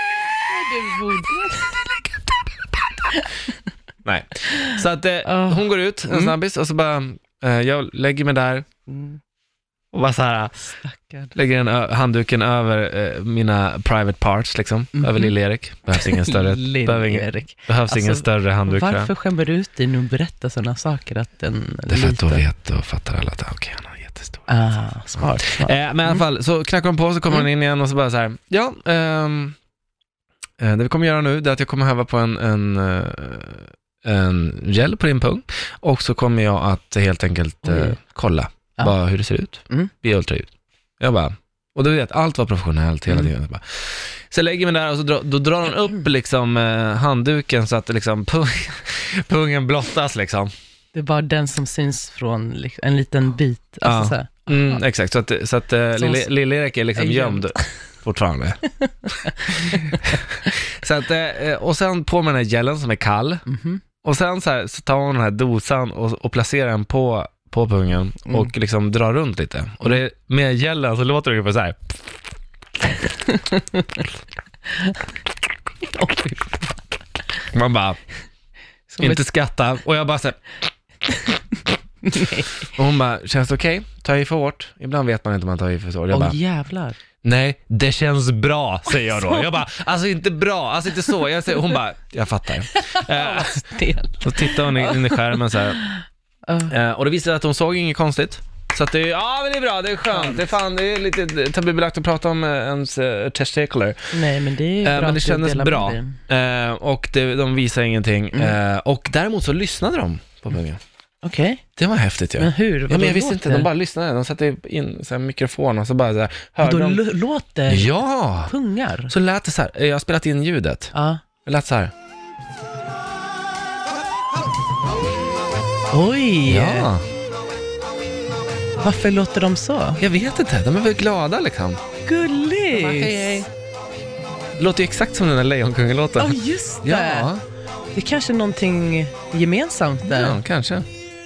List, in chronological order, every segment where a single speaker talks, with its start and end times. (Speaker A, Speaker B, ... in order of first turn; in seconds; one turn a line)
Speaker A: 0.5-1.8
Speaker B: 1.8-3.0
Speaker B: 4.0-8.7
Speaker A: 4.5-6.3
Speaker A: 8.9-9.2
Speaker B: 9.9-10.7
Speaker A: 10.7-11.3
Speaker B: 11.3-19.1
Speaker A: 14.9-15.3
Speaker A: 15.9-22.4
Speaker B: 21.9-24.8
Speaker A: 24.5-26.2
Speaker B: 25.4-29.6
Speaker B: 30.6-50.5
Speaker A: 37.6-38.0
Speaker A: 50.9-54.8
Speaker B: 53.8-58.6
Speaker A: 56.0-56.3
Speaker A: 56.9-57.7
Speaker A: 58.8-60.5
Speaker B: 59.5-63.4
Speaker A: 63.5-63.8
Speaker B: 64.0-71.9
Speaker A: 73.2-74.0
Speaker A: 74.7-75.1
Speaker A: 75.8-76.8
Speaker B: 77.5-78.0
Speaker A: 78.9-79.2
Speaker B: 79.0-80.4
Speaker A: 81.1-81.4
Speaker A: 82.0-82.7
Speaker B: 82.6-86.4
Speaker A: 86.1-87.0
Speaker B: 87.2-93.6
Speaker A: 92.7-96.7
Speaker B: 94.2-95.8
Speaker B: 96.7-104.1
Speaker A: 100.1-100.5
Speaker A: 104.1-106.2
Speaker B: 104.8-110.8
Speaker A: 111.2-111.6
Speaker B: 111.8-117.0
Speaker A: 112.4-113.7
Speaker A: 116.6-117.9
Speaker B: 117.7-118.5
Speaker A: 118.5-119.1
Speaker B: 119.1-120.9
Speaker A: 120.9-121.2
Speaker B: 121.4-121.9
Speaker A: 125.9-126.9
Speaker B: 126.5-127.0
Speaker A: 128.8-130.0
Speaker B: 130.0-131.8
Speaker A: 132.0-133.4
Speaker B: 132.7-133.5
Speaker B: 134.6-137.4
Speaker A: 136.2-137.3
Speaker A: 137.9-140.4
Speaker B: 140.1-140.8